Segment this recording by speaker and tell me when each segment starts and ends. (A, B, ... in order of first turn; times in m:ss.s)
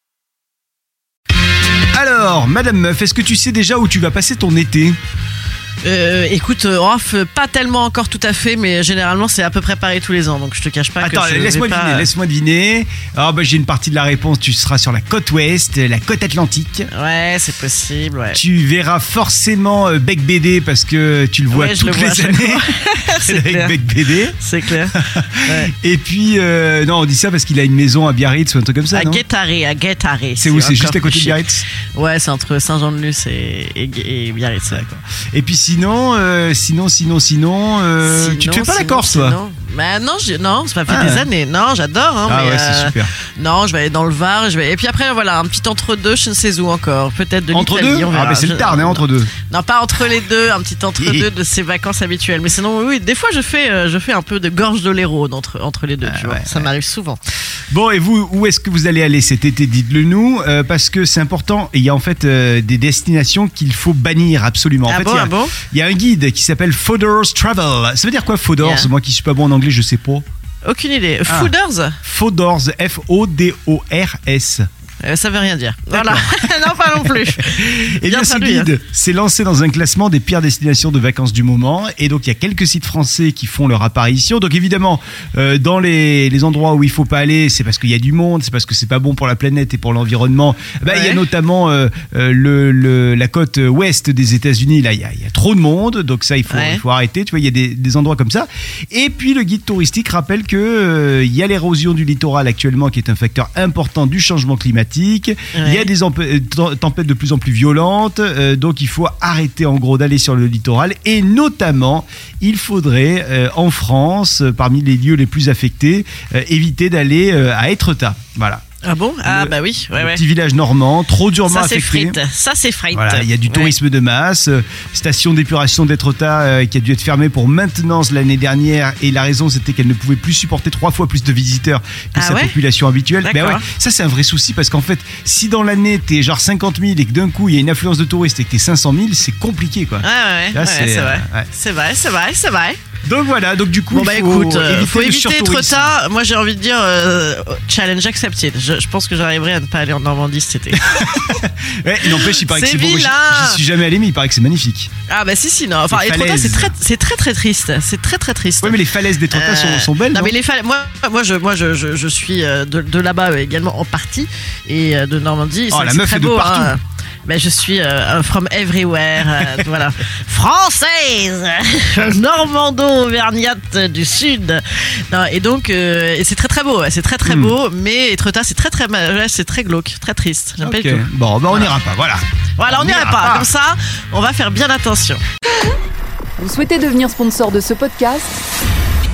0:01.9-0:05.0 A
0:05.8-0:12.1 B
0:11.0-0:16.9 A
0:16.9-0:18.4 B
0:18.3-0:24.4 A
0:21.5-0:25.7 B
0:24.9-0:29.2 A
0:28.9-0:31.4 B
0:30.4-0:31.6 A
0:31.9-0:34.9 B
0:34.7-0:39.4 A
0:38.0-0:57.2 B
0:40.9-0:41.3 A
0:42.3-0:43.1 A
0:47.5-0:49.3 A
0:51.0-0:51.3 A
0:56.0-0:56.7 A
0:57.7-1:10.2 A
1:04.8-1:05.6 B
1:08.6-1:08.9 B
1:10.6-1:12.0 B
1:11.2-1:11.5 A
1:12.0-1:14.7 A
1:15.0-1:18.7 B
1:15.9-1:58.6 A
1:30.8-1:31.2 B
1:36.5-1:36.8 B
1:45.5-1:45.9 B
1:58.8-2:00.2 B
1:59.2-2:02.2 A
2:01.4-2:03.8 B
2:02.9-2:21.5 A
2:12.1-2:12.6 B
2:13.2-2:13.6 B
2:20.0-2:22.8 B
2:23.0-2:25.9 A
2:23.9-2:31.3 B
2:30.8-2:34.9 A
2:32.0-2:33.6 B
2:35.1-3:01.8 B
2:35.9-2:36.8 A
2:38.6-2:40.3 A
2:45.7-2:46.7 A
2:57.2-2:57.5 A
3:00.6-3:03.5 A
3:02.6-3:05.2 B
3:06.4-3:08.4 C